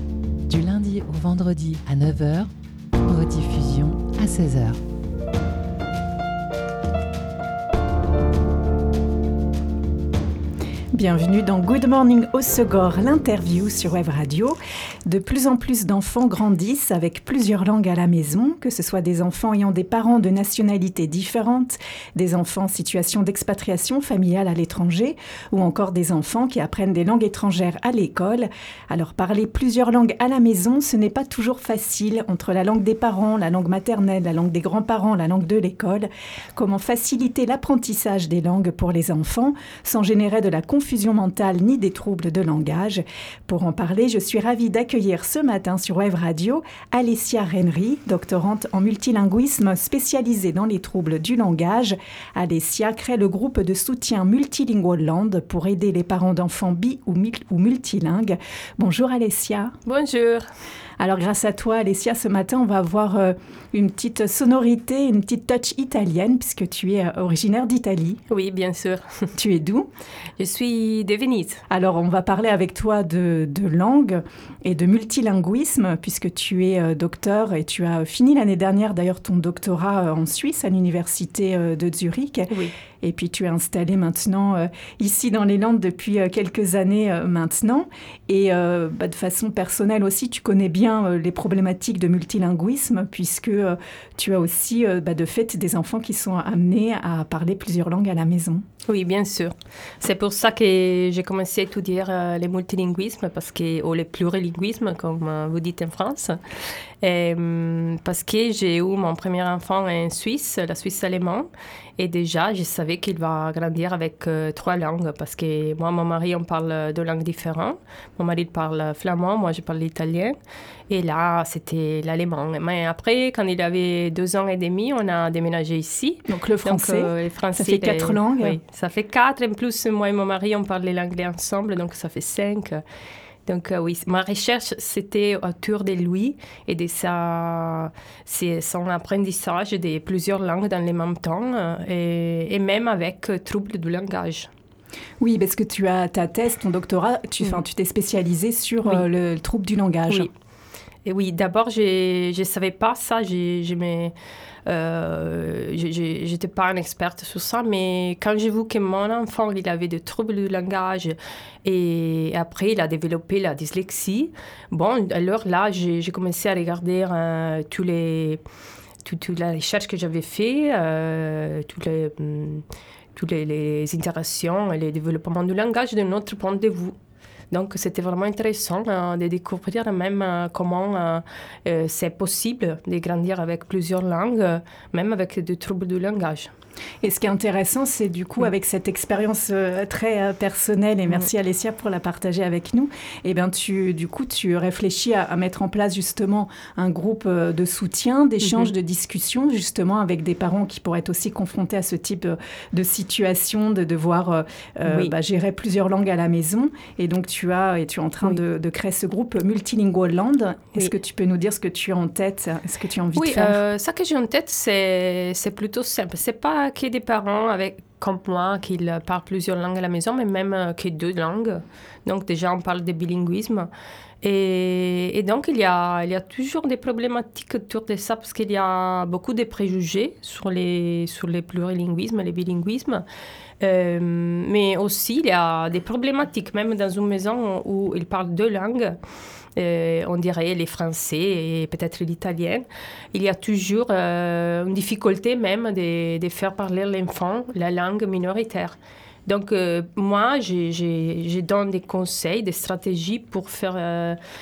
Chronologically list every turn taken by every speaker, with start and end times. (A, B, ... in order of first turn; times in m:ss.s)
0:00.5-0:02.5 A
0:03.1-0:04.8 A
0:10.9-0:59.7 B
0:59.8-1:00.5 C
1:01.0-1:08.2 B
1:08.3-1:09.3 C
1:09.4-1:09.9 B
1:10.4-1:11.6 C
1:11.7-1:38.6 B
1:38.8-2:00.3 C
2:00.9-2:12.8 C
2:06.2-2:08.6 B
2:13.4-2:24.5 C
2:25.2-2:30.3 B
2:31.0-2:34.1 C
2:34.6-2:48.4 C
2:49.0-2:52.6 C
2:53.1-2:57.0 C
2:57.5-3:06.5 C
3:07.0-3:33.6 B
3:18.4-3:18.7 C
3:24.8-3:25.1 C
3:33.1-3:43.7 C
3:44.2-3:53.0 C
3:53.6-3:59.0 C
3:59.6-4:14.2 C